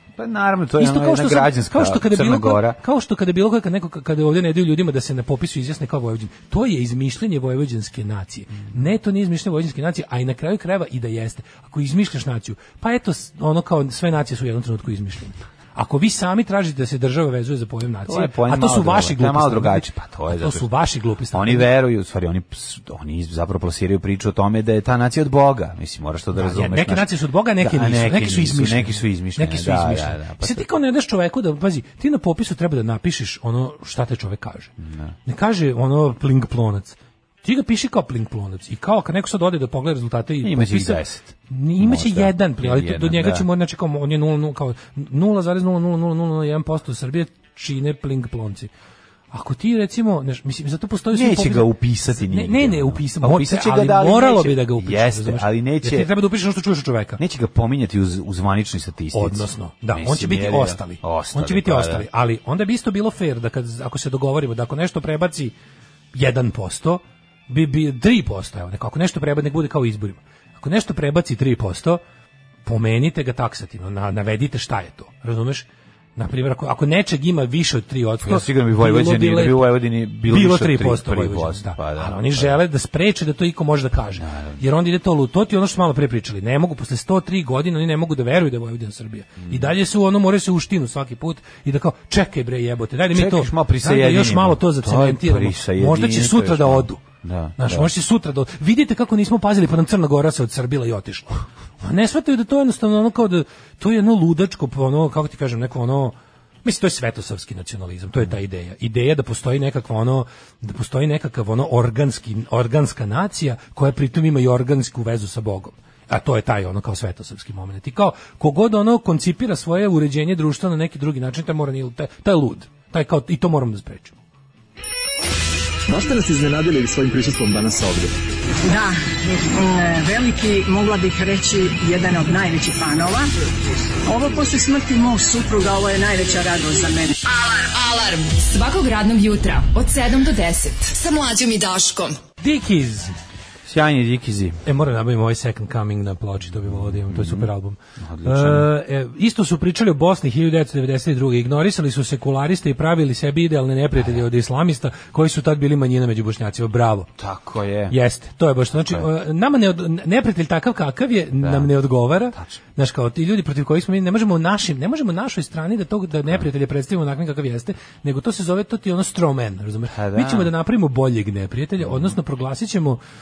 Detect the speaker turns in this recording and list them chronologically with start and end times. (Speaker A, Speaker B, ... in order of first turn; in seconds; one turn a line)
Speaker A: 0.2-2.8
Speaker B: 0.8-21.7
Speaker A: 18.1-20.7
Speaker A: 21.3-30.7
Speaker B: 26.3-34.7
Speaker A: 34.8-35.1
Speaker B: 35.2-48.7
Speaker A: 40.4-43.5
Speaker B: 49.3-57.2
Speaker A: 51.1-56.1
Speaker A: 57.2-62.1
Speaker B: 59.1-65.5
Speaker B: 66.1-72.0
Speaker B: 72.7-97.0
Speaker A: 78.2-82.6
Speaker A: 84.2-84.6
Speaker A: 93.1-97.9
Speaker B: 97.6-124.2
Speaker C: 125.9-128.1
Speaker D: 128.6-129.0
Speaker D: 129.5-133.3
Speaker D: 134.1-137.2
Speaker E: 137.2-142.2
Speaker B: 142.4-143.2
Speaker A: 143.7-144.6
Speaker B: 144.7-157.1
Speaker A: 146.7-148.7
Speaker A: 157.2-158.0
Speaker B: 157.9-173.0
Speaker A: 161.4-161.7
Speaker A: 169.9-170.5